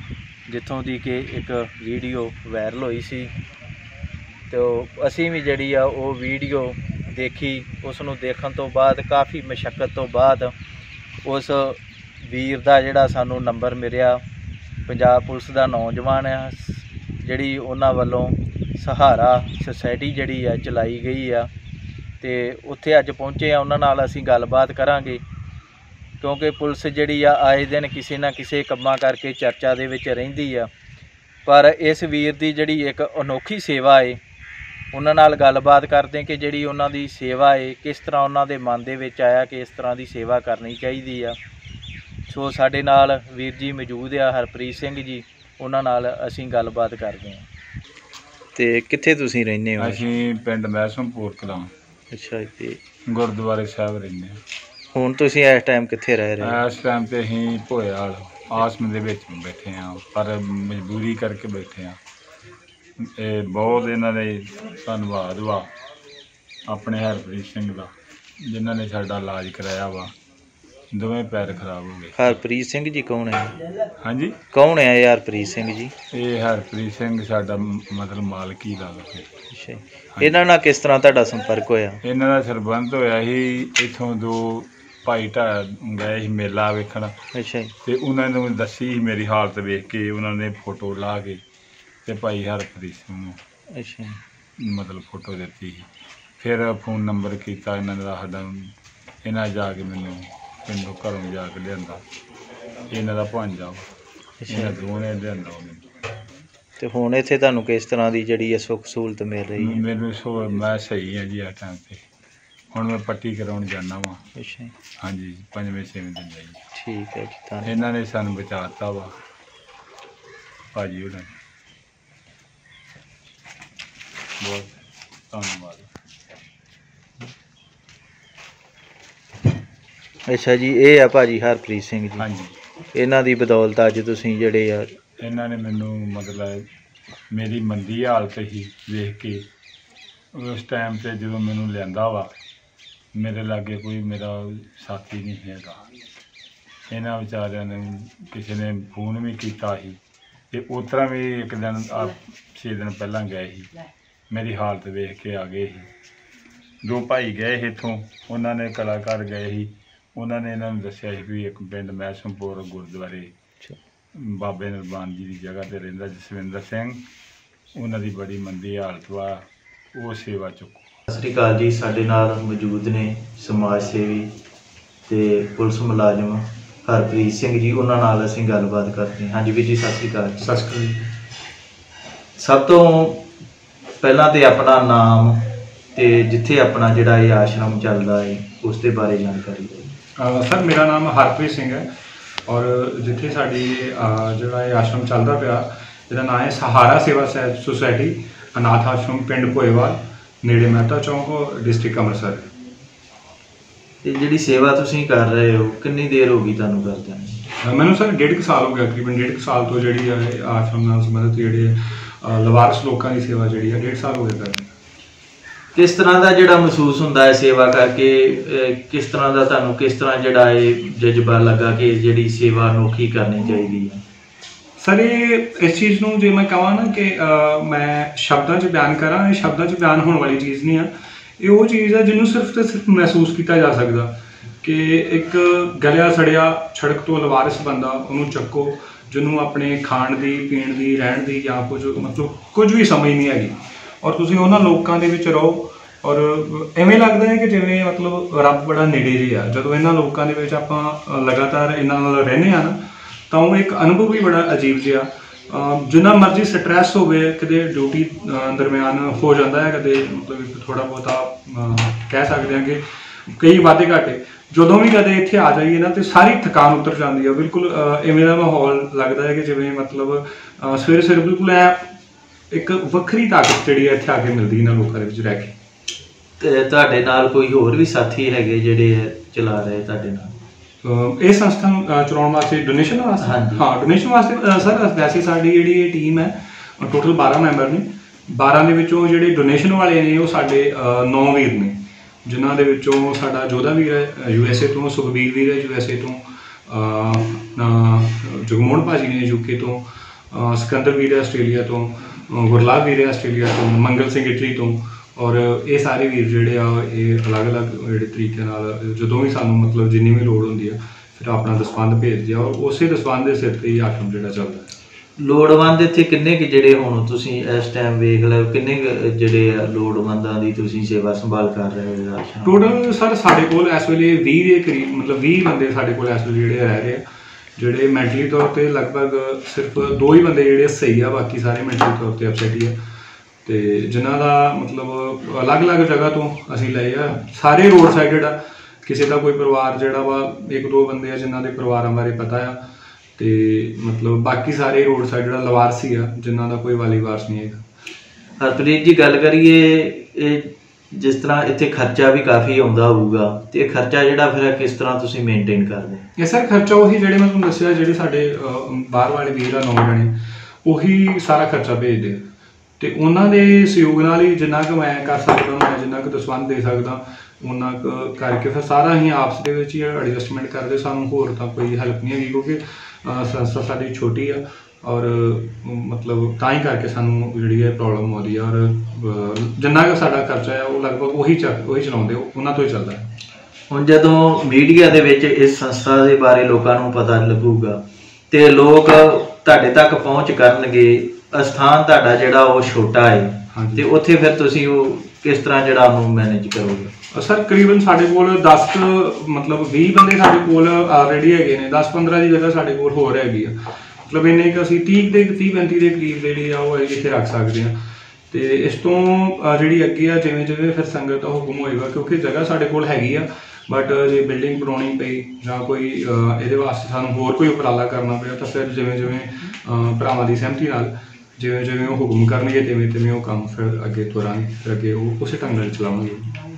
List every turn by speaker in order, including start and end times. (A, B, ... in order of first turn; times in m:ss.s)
0:00.5-0:03.3 A
0:04.5-0:10.6 A
0:11.2-0:14.2 A
0:14.9-0:21.5 A
0:22.2-0:25.2 A
0:26.2-0:30.7 A
0:31.5-0:34.2 A
0:34.9-0:41.4 A
0:42.3-0:47.5 A
0:48.6-0:50.0 A
0:49.8-0:51.7 B
0:52.1-0:52.8 A
0:53.1-0:54.4 B
0:54.9-0:56.6 A
0:56.4-1:02.0 B
1:03.0-1:05.7 B
1:06.7-1:10.2 B
1:10.9-1:12.4 B
1:12.1-1:13.7 A
1:14.0-1:14.4 B
1:14.5-1:15.9 A
1:16.1-1:19.3 B
1:19.5-1:22.0 A
1:20.2-1:20.4 B
1:22.0-1:27.2 B
1:27.3-1:27.7 A
1:27.8-1:31.4 B
1:32.0-1:33.4 B
1:33.8-1:34.2 A
1:34.6-1:42.0 B
1:42.9-1:43.9 B
1:44.4-1:44.8 A
1:44.5-1:45.9 B
1:46.8-1:49.8 A
1:49.6-1:52.0 B
1:52.7-1:54.2 B
1:54.4-1:54.7 A
1:55.0-1:56.6 B
1:56.7-1:57.8 A
1:57.6-1:59.2 B
2:00.7-2:01.3 B
2:04.4-2:04.8 B
2:05.3-2:05.9 B
2:10.3-2:12.3 A
2:12.2-2:12.6 B
2:12.9-2:15.0 A
2:15.2-2:16.7 B
2:17.3-2:19.5 B
2:20.3-2:22.3 B
2:23.2-2:25.8 B
2:26.9-2:30.0 B
2:30.5-2:33.7 B
2:34.3-2:35.9 B
2:36.8-2:43.3 B
2:44.2-2:47.1 B
2:47.8-2:50.9 B
2:51.1-2:54.3 A
2:55.1-3:00.5 A
3:00.4-3:01.1 C
3:02.4-3:03.3 A
3:04.0-3:09.9 A
3:10.2-3:11.9 C
3:12.5-3:22.5 C
3:24.0-3:27.4 A
3:27.6-3:34.7 C
3:35.8-3:44.0 A
3:44.8-3:54.1 C
3:54.6-4:12.8 C
4:13.3-4:31.9 C
4:32.5-4:35.5 C
4:36.4-4:40.3 A
4:40.8-5:14.7 C
4:43.2-4:43.6 A
5:15.2-5:22.8 A
5:22.4-5:27.0 C
5:27.6-5:32.8 C
5:33.4-5:42.6 C
5:43.2-5:47.6 C
5:48.4-5:56.0 A
5:56.2-6:00.1 C
6:00.6-6:02.2 C
6:02.8-6:23.1 C
6:23.7-6:36.9 A
6:33.5-6:33.9 C
6:37.1-6:47.8 C
6:48.3-7:06.3 C